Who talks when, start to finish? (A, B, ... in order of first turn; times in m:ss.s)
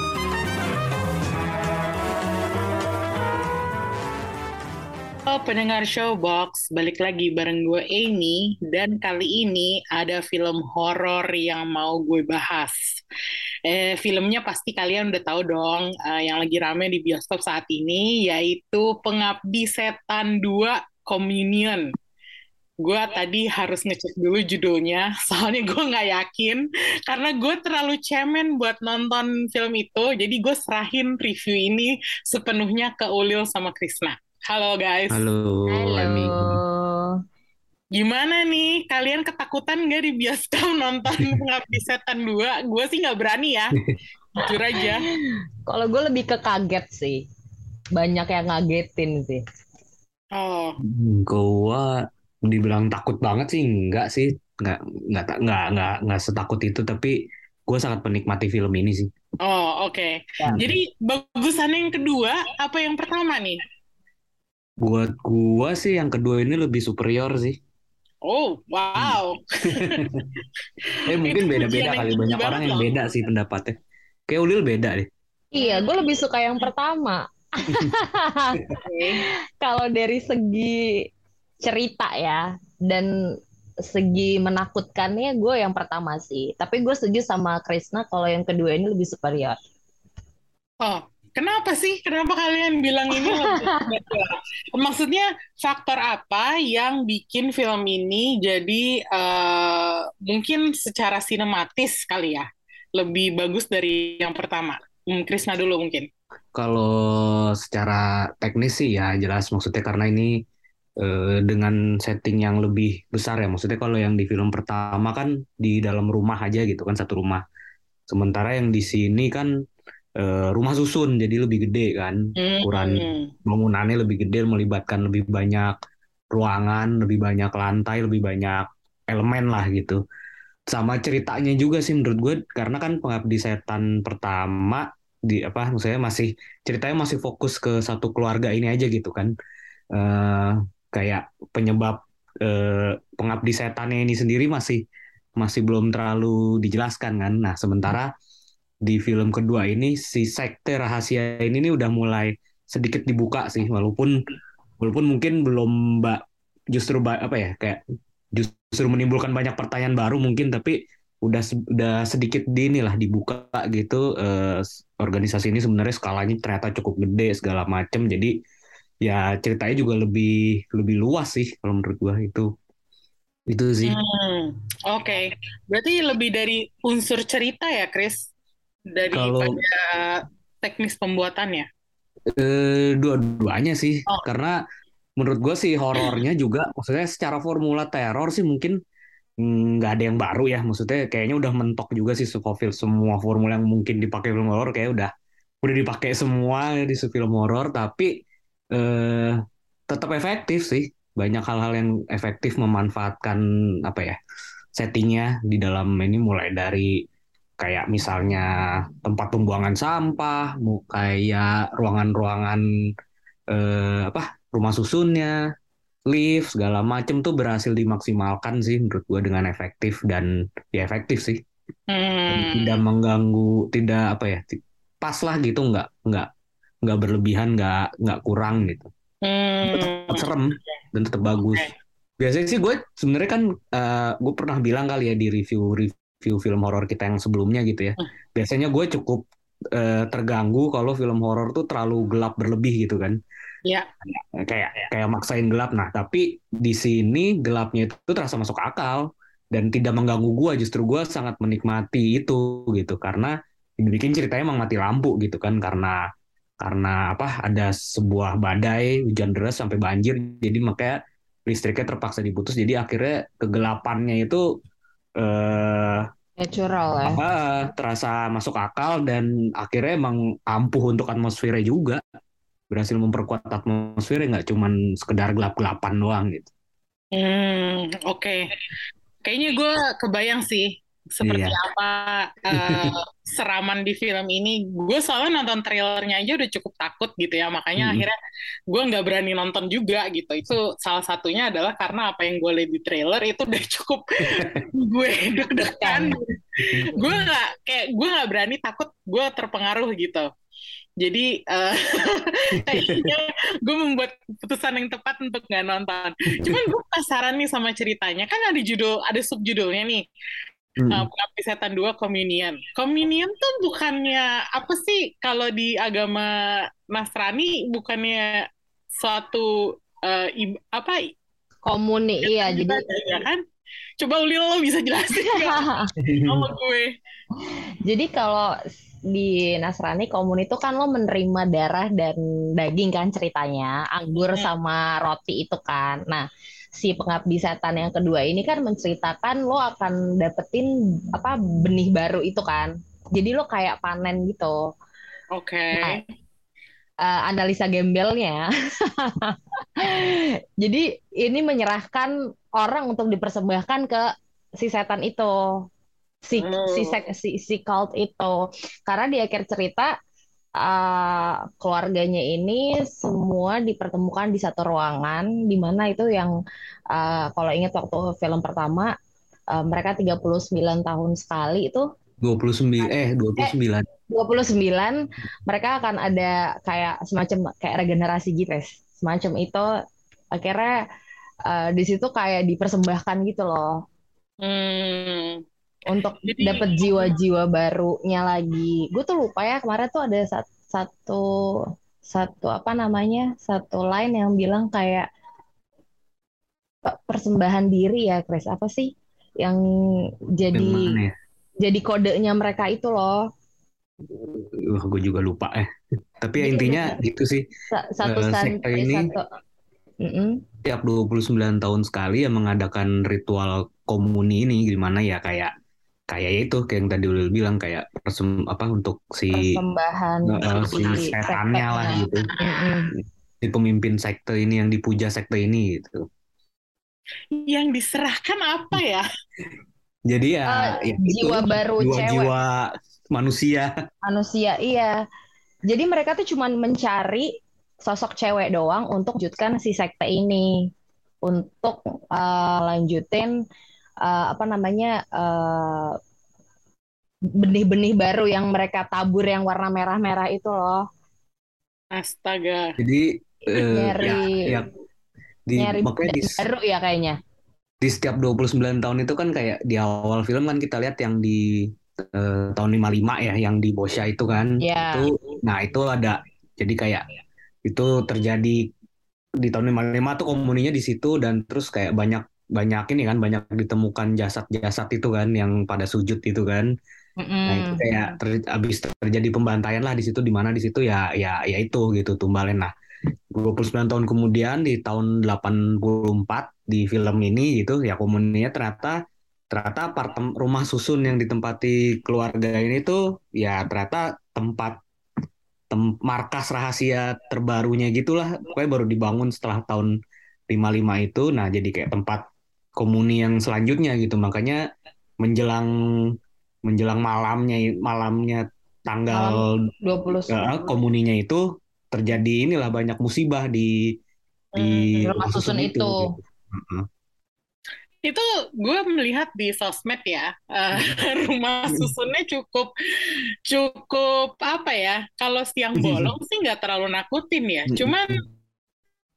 0:05.3-0:12.8 A
0:13.6-0:21.9 A
0:22.8-0:35.2 A
0:35.1-0:36.6 B
0:35.7-0:37.1 C
0:37.9-0:43.8 A
0:44.4-0:45.0 A
0:44.4-0:45.0 C
0:45.7-0:47.2 C
0:48.0-0:49.4 C
0:50.3-0:50.8 A
0:50.9-0:57.2 B
0:57.7-0:59.1 B
0:59.4-1:03.6 A
1:04.8-1:07.6 B
1:08.2-1:10.0 A
1:09.0-1:10.3 B
1:10.9-1:12.9 A
1:11.0-1:13.7 B
1:14.3-1:15.1 B
1:15.5-1:18.6 C
1:15.6-1:16.0 A
1:18.8-1:19.2 A
1:19.2-1:21.0 C
1:21.6-1:23.1 C
1:23.9-1:29.6 C
1:30.8-1:46.1 A
1:33.2-1:34.0 C
1:46.5-1:50.3 B
1:51.0-1:57.4 B
1:58.1-1:59.5 B
2:00.2-2:05.7 B
2:02.4-2:03.3 A
2:06.3-2:10.0 B
2:10.7-2:19.3 B
2:19.9-2:24.8 B
2:25.4-2:28.1 B
2:28.8-2:34.1 B
2:34.8-2:37.8 B
2:38.3-2:48.3 B
2:49.0-2:52.5 B
2:53.5-2:54.0 B
2:53.8-2:58.3 A
2:58.9-3:01.7 A
2:59.1-2:59.5 B
3:02.3-3:04.6 B
3:05.2-3:08.8 B
3:09.4-3:15.1 B
3:15.6-3:18.1 B
3:18.7-3:24.2 B
3:24.8-3:27.0 B
3:27.6-3:32.6 B
3:33.5-3:35.4 B
3:36.0-3:41.4 B
3:41.9-3:42.8 A
3:42.3-3:46.3 B
3:46.8-3:48.9 B
3:49.2-3:50.3 A
3:49.7-4:03.2 B
3:51.4-3:51.7 A
4:04.0-4:16.0 B
4:16.6-4:24.4 B
4:25.2-4:26.1 B
4:26.4-4:27.2 C
4:27.0-4:32.0 B
4:32.7-4:36.5 B
4:37.1-4:38.5 A
4:39.2-4:48.2 A
4:41.2-4:41.6 B
4:42.5-4:42.9 B
4:47.8-4:48.1 B
4:48.7-5:00.3 A
4:54.3-4:54.6 B
4:55.5-4:56.2 C
4:56.7-4:57.1 B
5:01.0-5:10.0 A
5:02.6-5:03.1 B
5:06.4-5:06.6 B
5:10.8-5:11.1 B
5:10.9-5:21.1 A
5:21.6-5:22.8 C
5:22.2-5:23.4 A
5:24.0-5:26.9 A
5:25.1-5:25.9 C
5:26.0-5:26.5 B
5:27.4-5:28.5 C
5:29.1-5:36.2 C
5:36.8-5:44.6 C
5:45.3-5:46.0 A
5:45.7-5:46.0 C
5:47.0-5:54.0 C
5:54.6-5:55.4 C
5:56.3-5:59.9 C
5:56.4-5:57.0 A
6:00.6-6:06.3 C
6:06.9-6:08.9 C
6:09.5-6:11.8 C
6:12.2-6:13.8 B
6:14.1-6:19.7 C
6:20.3-6:20.8 C
6:21.4-6:23.7 C
6:24.4-6:25.4 A
6:25.9-6:31.3 C
6:26.3-6:27.1 A
6:32.0-6:35.0 C
6:36.8-6:38.9 C
6:39.4-6:41.0 C
6:40.5-6:41.1 B
6:41.6-6:43.2 C
6:44.1-6:45.7 B
6:46.2-6:47.4 B
6:46.4-6:47.0 C
6:47.7-6:49.2 C
6:48.0-6:49.1 B
6:50.0-6:50.4 C
6:50.6-6:55.5 B
6:56.1-6:59.6 B
6:59.3-7:02.9 C
7:00.3-7:02.3 B
7:02.0-7:02.3 A
7:02.9-7:06.1 B
7:07.3-7:09.0 A
7:10.1-7:13.7 B
7:10.5-7:12.3 C
7:14.0-7:15.0 C
7:15.7-7:17.3 C
7:17.8-7:20.5 C
7:21.2-7:23.3 C
7:24.0-7:26.0 C
7:27.4-7:30.8 C
7:31.9-7:32.7 A
7:32.8-7:34.7 B
7:33.5-7:34.5 C
7:35.5-7:36.4 B
7:35.6-7:37.2 C
7:37.8-7:47.0 B
7:44.6-7:45.1 C
7:47.6-7:48.6 B
7:49.4-7:56.7 B
7:57.2-7:58.1 C
7:57.5-8:02.7 B
8:03.3-8:09.0 B
8:09.5-8:14.8 B
8:15.7-8:19.9 B
8:20.5-8:22.2 B
8:22.8-8:24.6 B
8:25.2-8:25.8 B
8:26.6-8:29.5 B
8:29.1-8:30.6 C
8:30.3-8:33.7 B
8:34.6-8:34.9 A
8:34.6-8:36.8 B
8:35.0-8:36.1 C
8:38.0-8:42.7 A
8:43.4-8:48.2 A
8:45.8-8:46.1 B
8:47.7-8:48.1 B